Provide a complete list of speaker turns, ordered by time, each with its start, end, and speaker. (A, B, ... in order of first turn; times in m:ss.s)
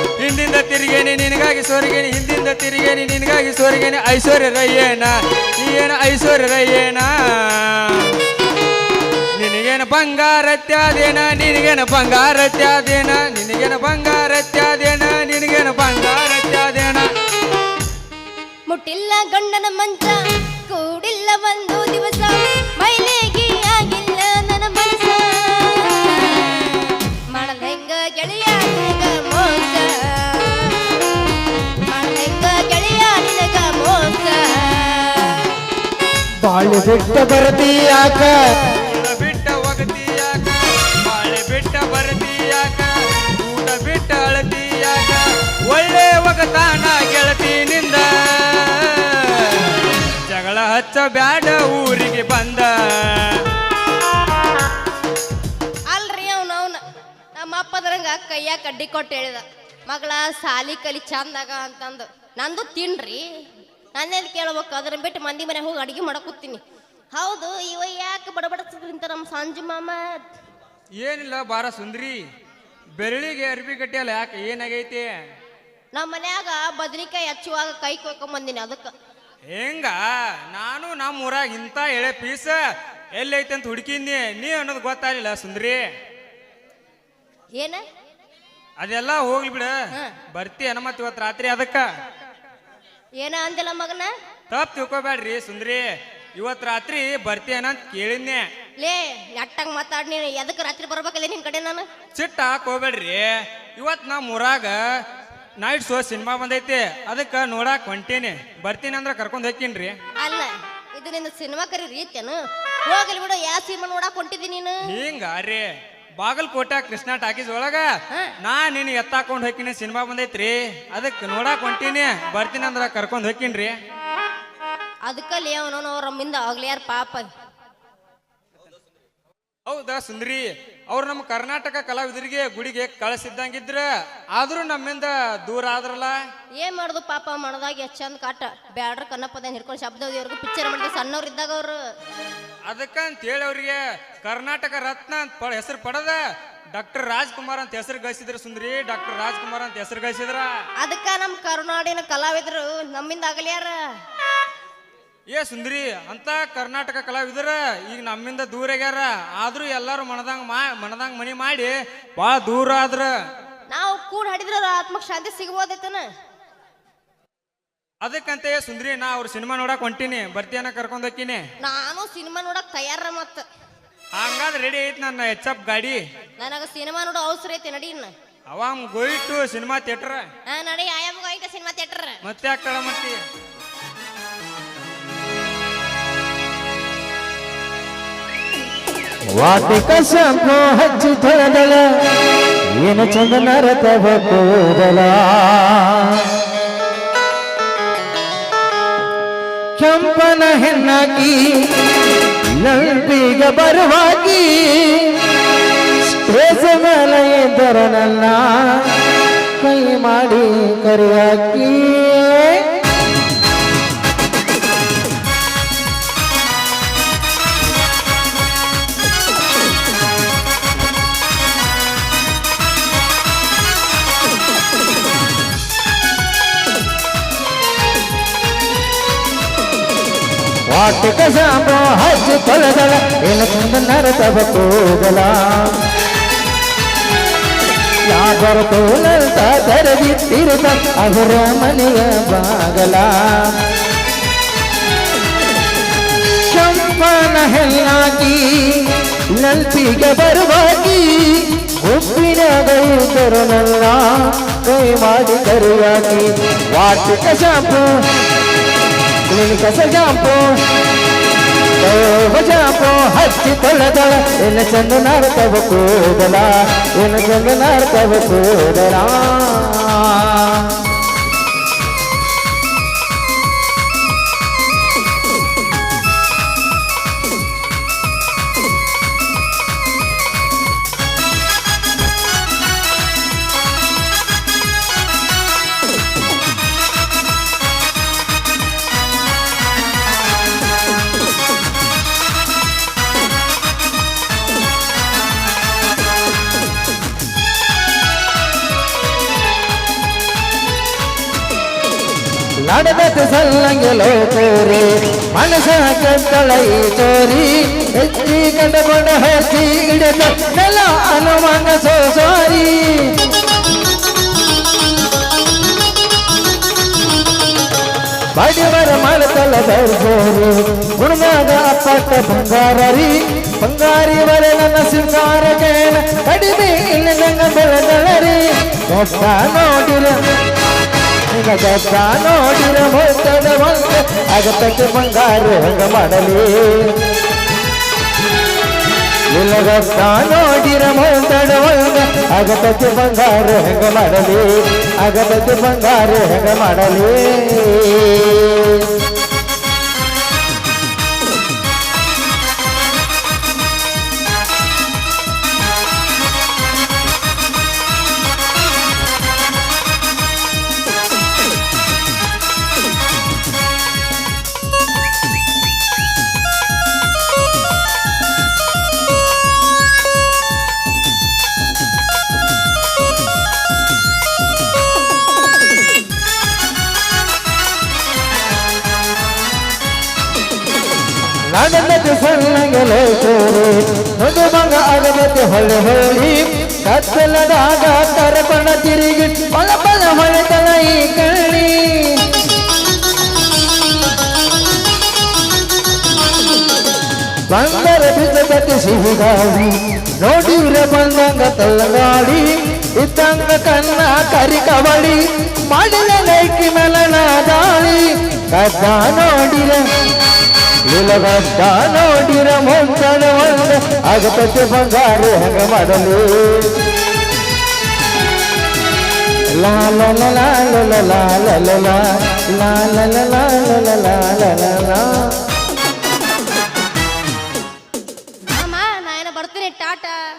0:00.2-0:08.1 A
0:09.4-0:17.1 A
0:18.7-0:31.2 B
0:31.9-0:35.5 B
0:36.4-0:38.7 C
0:38.8-0:53.4 A
0:55.9-0:56.8 B
0:57.4-1:03.2 B
1:04.0-1:06.6 B
1:07.1-1:10.0 B
1:11.0-1:12.2 A
1:13.0-1:15.2 A
1:15.9-1:18.9 B
1:19.5-1:22.6 A
1:23.2-1:25.9 A
1:27.6-1:27.8 B
1:28.8-1:29.7 A
1:30.3-1:31.9 A
1:33.2-1:34.1 B
1:34.5-1:38.5 A
1:38.8-1:41.9 B
1:42.2-1:44.8 A
1:45.6-1:50.0 A
1:50.2-1:54.8 B
1:54.9-1:57.9 A
1:58.4-2:03.8 A
2:05.1-2:07.3 B
2:09.7-2:16.2 A
2:16.6-2:21.8 B
2:22.7-2:26.2 A
2:26.7-2:30.5 A
2:30.8-2:33.8 B
2:35.3-2:43.1 A
2:43.7-2:46.1 B
2:48.0-2:51.4 A
2:51.6-2:53.4 B
2:54.2-2:56.0 A
2:56.4-2:58.1 B
2:58.5-3:00.3 A
3:00.5-3:02.2 B
3:02.2-3:03.2 A
3:09.3-3:11.8 C
3:12.8-3:16.4 C
3:19.8-3:25.3 C
3:26.0-3:32.7 C
3:50.7-3:55.8 C
3:58.1-4:03.6 C
4:06.3-4:17.9 C
4:19.3-4:20.4 C
4:21.8-4:30.9 C
5:02.6-5:13.3 C
5:18.4-5:30.2 C
5:31.3-5:37.0 C
5:39.3-5:48.9 C
6:21.5-6:32.2 C
6:37.5-6:49.8 C
6:50.9-6:56.8 C
6:59.5-7:05.4 C
7:08.5-7:10.2 B